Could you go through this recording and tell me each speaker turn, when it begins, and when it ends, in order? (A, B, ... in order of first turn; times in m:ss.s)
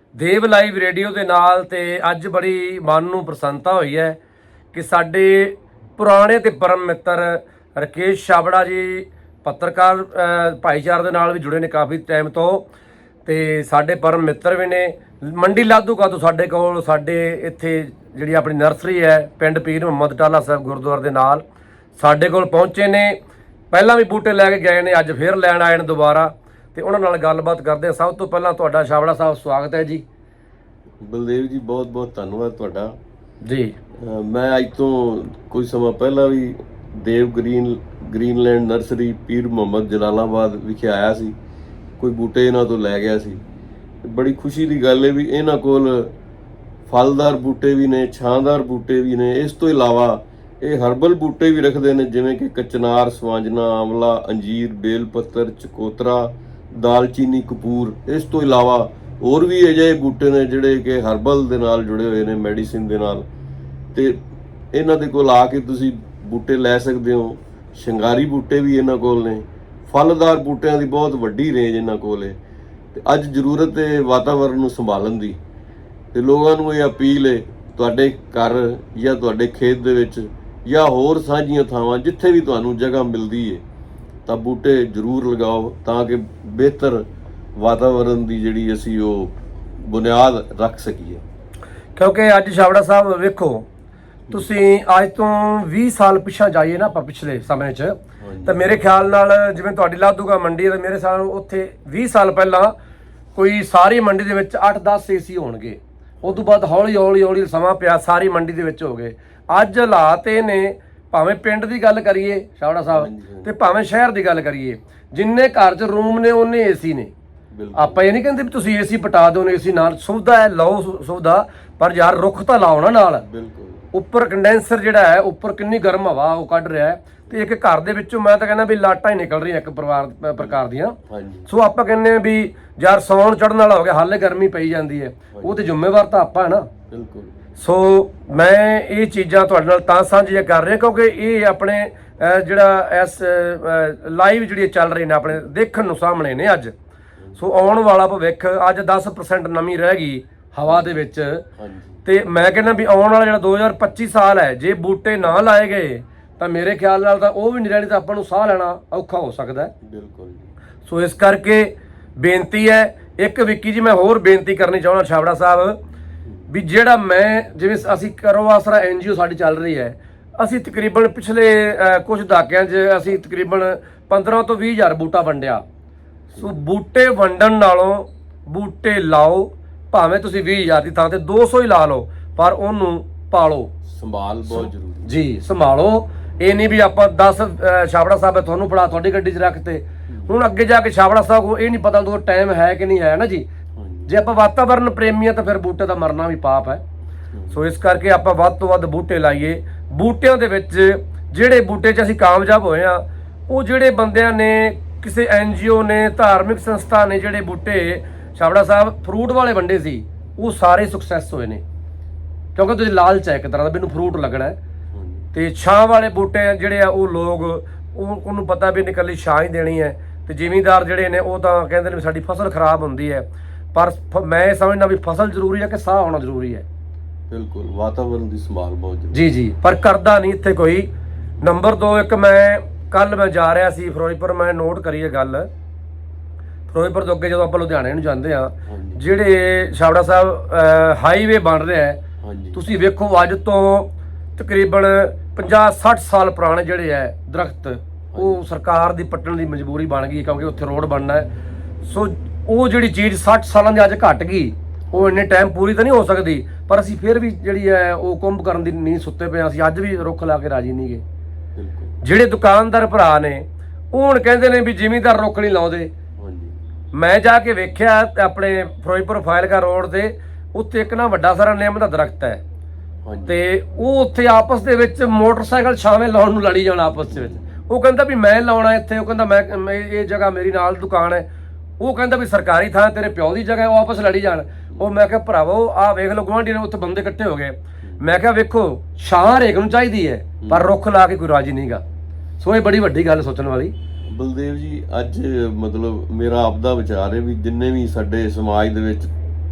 0:00.2-0:04.2 A
0:04.7-0:12.7 A
0:13.2-0:21.4 A
0:22.0-0:23.2 A
0:23.7-0:30.0 A
0:31.0-0:32.9 B
0:33.4-0:33.8 A
0:34.0-0:41.3 B
0:42.0-0:43.4 B
0:44.0-0:46.1 B
0:46.9-1:03.3 B
1:04.7-1:12.4 B
1:12.9-1:15.4 B
1:16.1-1:23.6 B
1:24.2-1:27.0 B
1:27.6-1:31.2 B
1:32.0-1:33.7 A
1:34.3-1:42.7 A
1:38.2-1:38.8 B
1:43.3-1:57.1 A
1:46.2-1:46.5 B
1:52.9-1:53.5 B
1:57.5-1:58.1 B
1:57.8-2:03.2 A
2:03.2-2:03.8 B
2:03.9-2:11.0 A
2:11.1-2:11.5 B
2:11.5-2:16.7 A
2:15.3-2:15.6 B
2:16.9-2:17.3 B
2:17.6-2:26.7 A
2:27.2-2:27.4 B
2:27.4-2:31.4 A
2:31.6-2:32.0 B
2:32.0-2:39.7 A
2:39.8-2:40.5 B
2:40.8-2:45.8 A
2:46.5-2:55.6 A
2:56.3-2:56.6 B
2:56.4-3:03.7 A
3:03.9-3:05.1 B
3:04.5-3:13.5 A
3:10.1-3:10.3 B
3:13.8-3:14.1 B
3:14.1-3:16.8 A
3:17.3-3:17.6 B
3:17.5-3:31.6 A
3:32.5-3:34.6 A
3:34.9-3:35.3 B
3:35.3-3:46.6 A
3:47.3-3:49.2 B
3:49.1-3:50.9 A
3:51.4-3:55.5 A
3:56.7-4:02.0 A
3:58.7-3:59.0 B
4:02.2-4:02.6 B
4:02.5-4:11.3 A
4:08.1-4:08.4 B
4:11.8-4:21.0 A
4:14.9-4:15.3 B
4:21.6-4:22.0 B
4:22.0-4:25.9 A
4:26.2-4:26.6 B
4:26.9-4:32.4 A
4:33.0-4:33.4 B
4:33.3-4:41.2 A
4:37.0-4:37.5 B
4:41.8-4:51.8 A
4:50.4-4:50.7 B
4:52.4-4:53.7 A
4:54.0-4:59.1 B